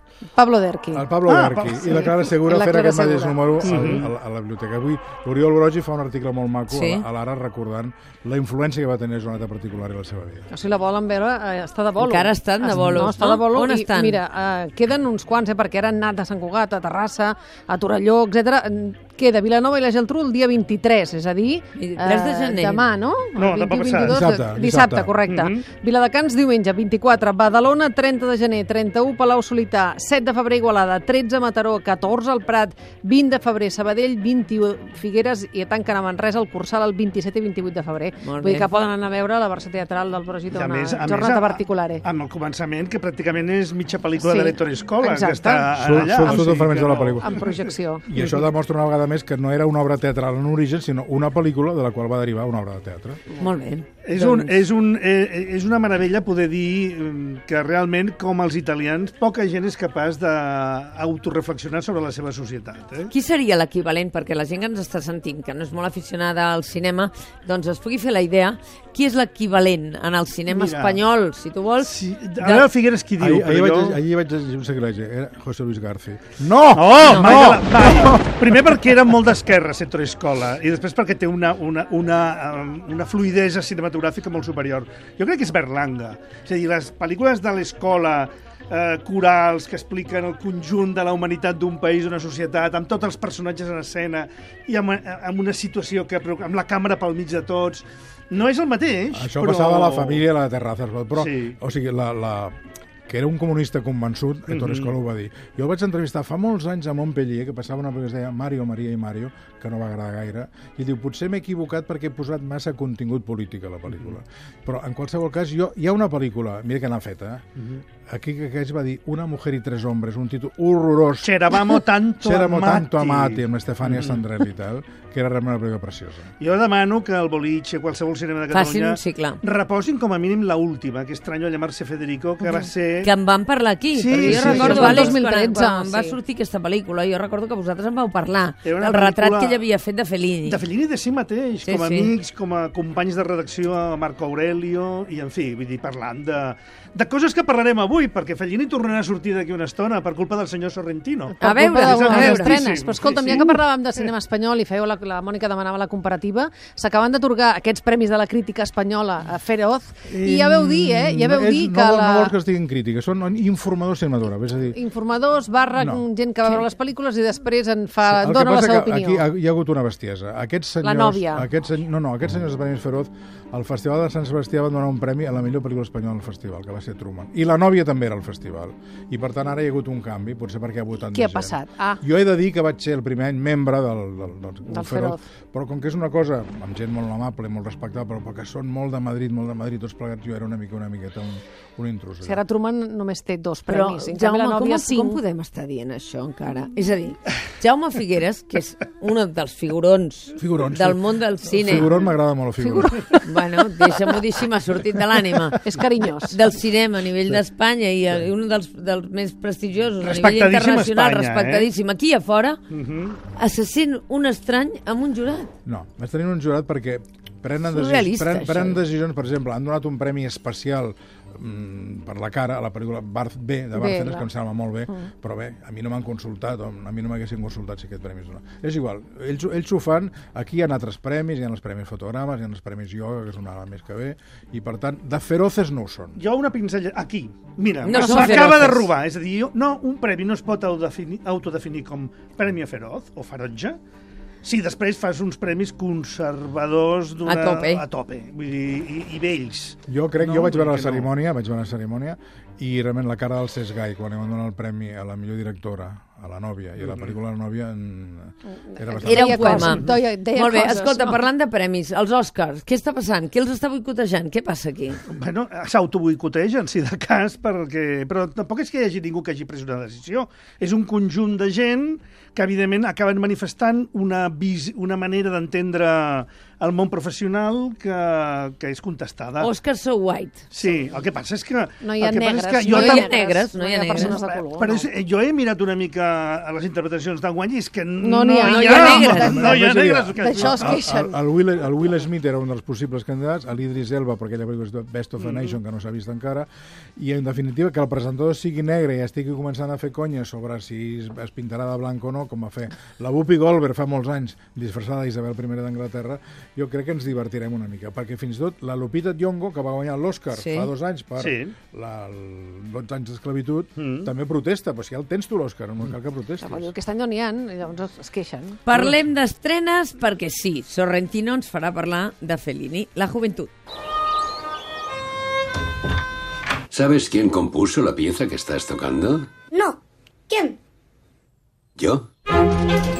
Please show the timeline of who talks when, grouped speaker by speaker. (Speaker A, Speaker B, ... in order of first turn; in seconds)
Speaker A: 0.3-1.1, 1.9-3.8, 10.5-42.0, 44.2-46.4, 47.2-48.1, 134.2-136.2, 151.4-162.3, 164.7-169.3, 170.8-171.5, 181.1-182.0, 184.7-185.2, 192.2-195.6, 202.6-203.2, 205.6-206.4, 223.7-224.3, 258.6-261.2, 281.8-284.9, 288.0-289.6, 290.1-291.1, 316.4-318.6
Speaker B: 0.9-10.5, 24.0-25.2, 45.7-47.5, 48.0-53.2, 73.2-78.7, 99.1-117.4, 118.1-126.3, 160.1-164.8, 165.8-166.0, 168.0-192.4, 200.4-203.2, 215.6-236.2, 249.9-259.8, 288.8-316.7
Speaker C: 1.2-1.9, 3.6-4.1, 23.4-24.2, 25.3-25.6, 40.5-48.5, 54.0-63.1, 70.5-71.0, 71.8-74.0, 76.7-100.2, 101.1-101.6, 104.5-104.9, 117.6-117.8, 121.2-124.2, 126.4-133.1, 133.9-135.2, 138.6-139.6, 140.4-153.6, 210.0-211.7, 212.7-213.2, 236.2-243.8, 244.4-251.1, 256.8-257.1, 259.6-259.9, 265.1-279.5, 280.5-283.1, 284.0-290.8, 295.2-295.6, 311.2-311.6, 313.8-314.1
Speaker D: 6.7-7.0, 12.0-14.2, 21.8-22.8, 38.2-38.7, 53.4-54.6, 63.1-72.7, 77.0-77.6, 128.5-129.4, 133.0-140.6, 141.6-142.1, 151.4-152.6, 193.7-201.9, 203.2-212.6, 213.3-215.5, 217.6-218.8, 237.8-238.9, 247.2-247.8, 259.0-265.0, 279.4-280.4, 282.6-284.2, 288.4-289.6, 310.3-310.7, 318.6-323.5
Speaker E: 326.7-329.2, 331.8-332.1